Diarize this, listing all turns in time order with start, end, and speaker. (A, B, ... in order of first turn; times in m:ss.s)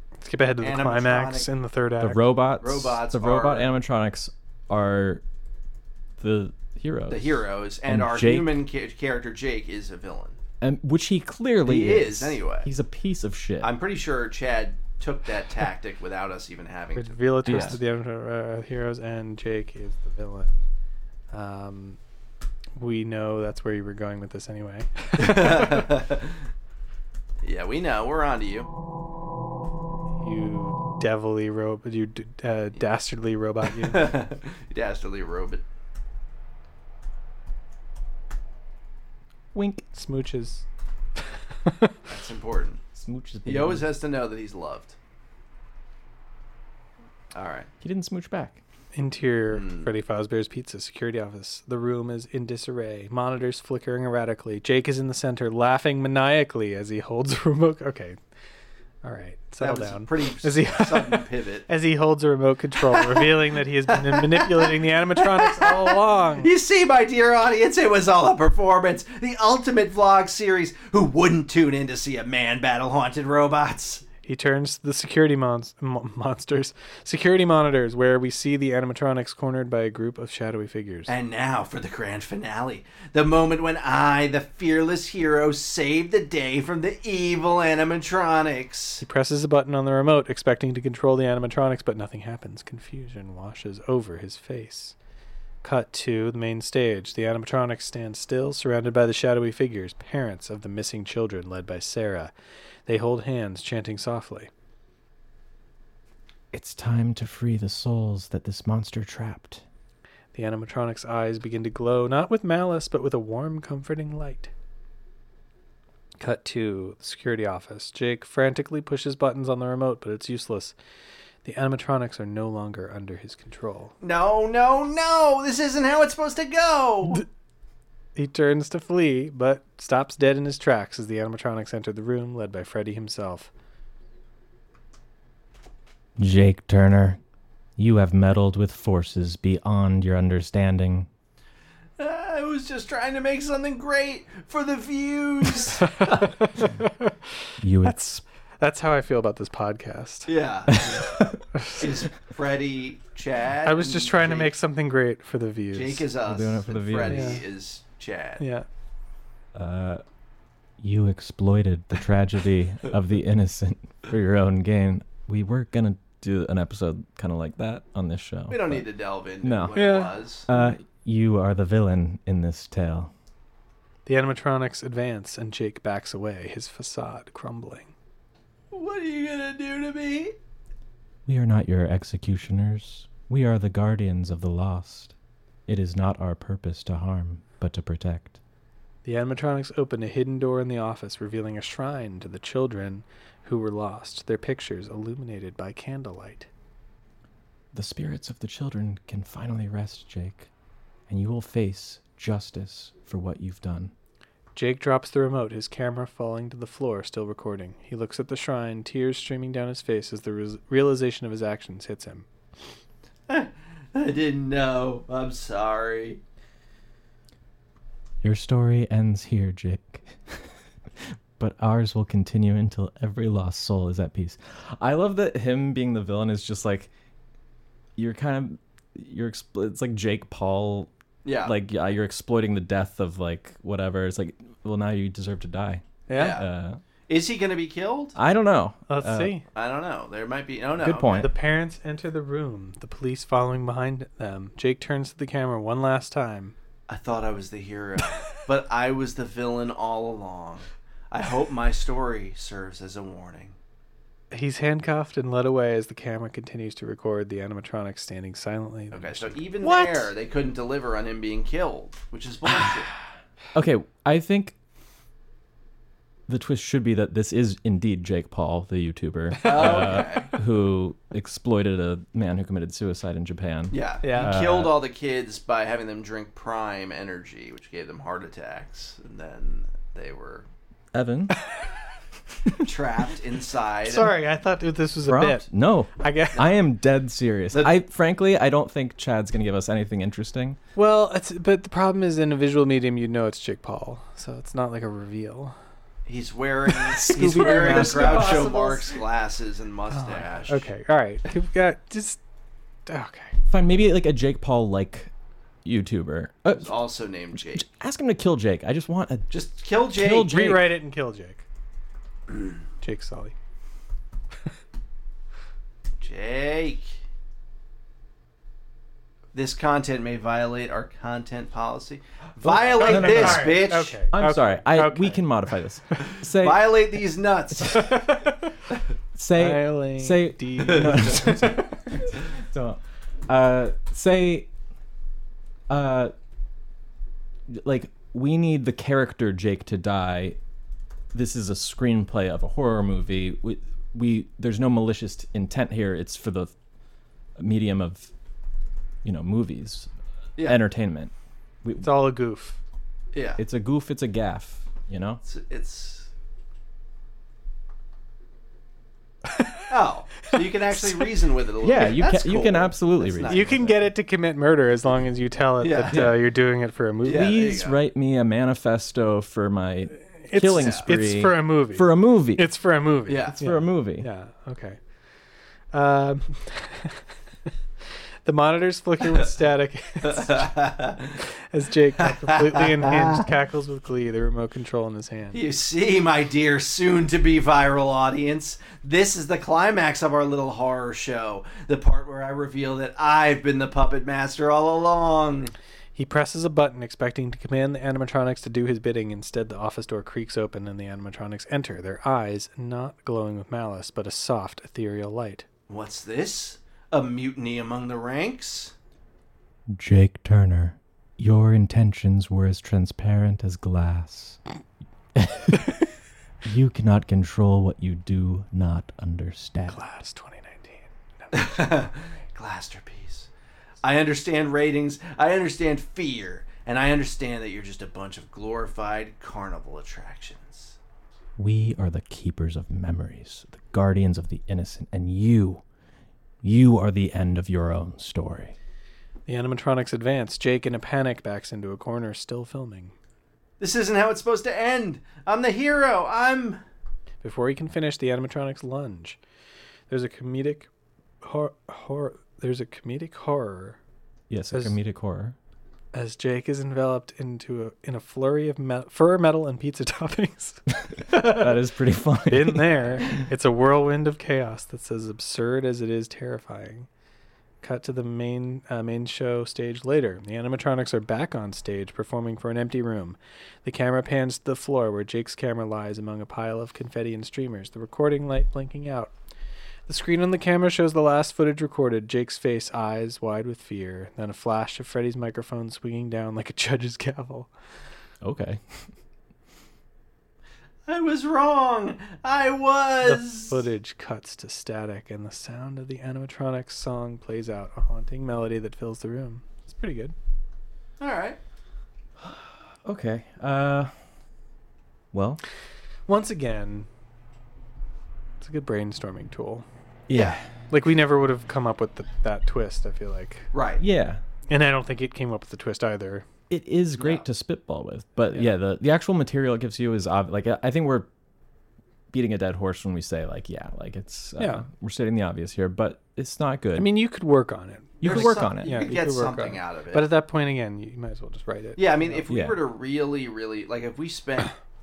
0:00.2-0:02.2 A
0:00.6-0:01.5 B
0:02.0-0:05.2 C
0:02.6-0:03.7 B
0:06.2-0:08.6 C
0:07.1-0:10.4 B
0:10.6-0:13.7 C
0:11.6-0:12.7 B
0:13.6-0:17.8 B
0:17.0-0:20.5 A
0:17.4-0:17.8 C
0:21.3-0:22.0 A
0:22.8-0:25.9 A
0:25.2-0:26.4 B
0:27.4-0:28.7 B
0:30.2-0:34.2 A
0:33.7-0:35.6 B
0:39.5-0:39.8 C
0:39.9-0:40.6 A
0:41.6-0:41.9 A
0:42.0-0:42.8 B
0:42.9-0:43.8 C
0:43.4-0:44.9 B
0:47.3-0:47.7 B
0:47.8-0:48.6 C
0:48.9-0:58.2 A
0:49.5-0:49.9 B
0:59.0-1:06.5 A
0:59.6-1:01.7 B
1:02.9-1:14.0 B
1:14.2-1:21.1 A
1:21.1-1:29.0 B
1:29.0-1:35.0 A
1:35.6-1:42.3 A
1:42.9-1:44.5 A
1:46.5-1:49.6 C
1:50.3-1:54.5 A
1:56.2-2:00.7 A
2:01.4-2:03.9 A
2:04.0-2:07.2 B
2:08.2-2:13.5 A
2:16.2-2:17.2 C
2:17.8-2:21.1 C
2:22.0-2:26.3 B
2:25.8-2:27.1 A
2:27.6-2:28.0 C
2:27.8-2:30.3 A
2:30.2-2:31.2 B
2:30.7-2:31.2 C
2:31.5-2:32.0 A
2:31.7-2:34.5 B
2:33.6-2:36.1 A
2:35.7-2:38.4 B
2:36.2-2:37.4 C
2:37.1-2:37.4 A
2:38.4-2:38.6 A
2:39.5-2:40.0 C
2:40.8-2:48.8 C
2:48.5-2:50.5 B
2:49.4-2:49.8 C
2:49.7-2:50.1 A
2:50.5-2:53.1 C
2:54.0-2:57.9 A
2:58.7-3:00.4 B
3:01.2-3:05.1 C
3:05.7-3:08.4 C
3:09.0-3:16.5 A
3:17.7-3:20.5 C
3:21.1-3:23.9 C
3:24.5-3:32.3 A
3:33.3-3:36.2 B
3:38.2-3:46.9 C
3:48.0-3:50.9 C
3:51.2-3:51.5 B
3:51.4-3:56.8 C
3:56.1-3:56.4 A
3:56.1-3:56.4 B
3:57.1-3:58.2 B
3:58.2-3:59.3 C
3:58.9-3:59.4 A
3:59.5-4:01.3 B
4:00.8-4:01.3 C
4:01.2-4:06.5 A
4:06.9-4:13.6 B
4:14.3-4:20.1 A
4:18.9-4:22.9 B
4:23.5-4:24.5 C
4:26.3-4:34.7 C
4:29.4-4:30.4 B
4:33.7-4:40.4 B
4:34.0-4:34.4 A
4:40.9-4:41.4 C
4:42.6-4:44.1 B
4:43.8-4:46.4 A
4:45.0-4:50.6 C
4:50.8-4:55.5 A
4:56.1-5:00.6 B
4:56.7-4:59.0 A
4:57.1-4:58.5 C
4:59.9-5:02.2 A
5:02.9-5:03.4 A
5:03.5-5:05.1 C
5:05.6-5:06.8 C
5:06.6-5:07.6 B
5:07.3-5:09.3 C
5:09.3-5:10.4 B
5:09.8-5:10.7 C
5:10.2-5:11.4 A
5:12.8-5:13.3 A
5:16.0-5:17.0 B
5:19.3-5:24.0 B
5:22.4-5:26.7 C
5:22.7-5:25.2 A
5:26.1-5:28.1 B
5:27.7-5:28.5 A
5:29.1-5:34.5 C
5:29.3-5:32.0 A
5:30.6-5:31.3 B
5:35.7-5:36.1 C
5:37.5-5:40.4 C
5:41.1-5:46.5 C
5:47.4-5:48.1 C
5:49.0-5:51.1 C
5:51.6-5:52.0 C
5:51.8-5:52.6 A
5:53.1-5:53.4 B
5:53.4-5:55.2 C
5:55.2-5:56.1 B
5:59.7-6:03.8 B
6:01.6-6:03.6 C
6:03.2-6:07.4 A
6:05.6-6:06.2 B
6:05.9-6:06.2 C
6:07.0-6:07.8 B
6:07.1-6:12.5 C
6:10.1-6:14.8 A
6:10.5-6:10.9 B
6:13.1-6:13.4 B
6:13.4-6:14.1 C
6:15.7-6:17.0 A
6:18.2-6:20.5 A
6:20.0-6:21.2 B
6:21.5-6:25.4 A
6:22.0-6:23.3 B
6:25.3-6:35.5 B
6:36.0-6:45.5 A
6:45.7-6:48.7 B
6:49.7-6:54.4 C
6:55.2-6:55.7 C
6:56.4-6:59.8 C
6:59.7-7:02.0 A
7:01.3-7:03.3 B
7:03.8-7:10.7 B
7:11.4-7:15.6 C
7:16.4-7:18.5 C
7:19.3-7:22.9 A
7:23.6-7:26.6 B
7:27.2-7:29.2 A
7:29.9-7:30.7 A
7:31.2-7:33.8 A
7:34.3-7:35.4 C
7:34.5-7:34.8 A
7:35.9-7:41.5 A
7:41.0-7:43.0 C
7:42.3-7:46.9 A
7:47.6-7:59.1 A
7:59.9-8:07.5 A
8:08.2-8:08.9 C
8:10.8-8:13.6 B
8:13.0-8:20.1 A
8:21.0-8:21.4 B
8:22.2-8:23.9 C
8:25.1-8:25.4 C
8:26.1-8:26.9 A
8:28.4-8:29.6 A
8:30.1-8:30.4 C
8:30.1-8:30.4 B
8:30.7-8:33.5 A
8:33.5-8:33.8 B
8:33.8-8:34.2 C
8:34.5-8:36.3 A
8:36.5-8:41.1 C
8:37.0-8:37.2 B
8:42.1-8:46.9 C
8:44.4-8:44.6 A
8:46.7-8:52.2 A
8:48.0-8:48.9 C
8:48.0-8:50.1 B
8:51.8-8:54.6 B
8:52.3-8:52.6 C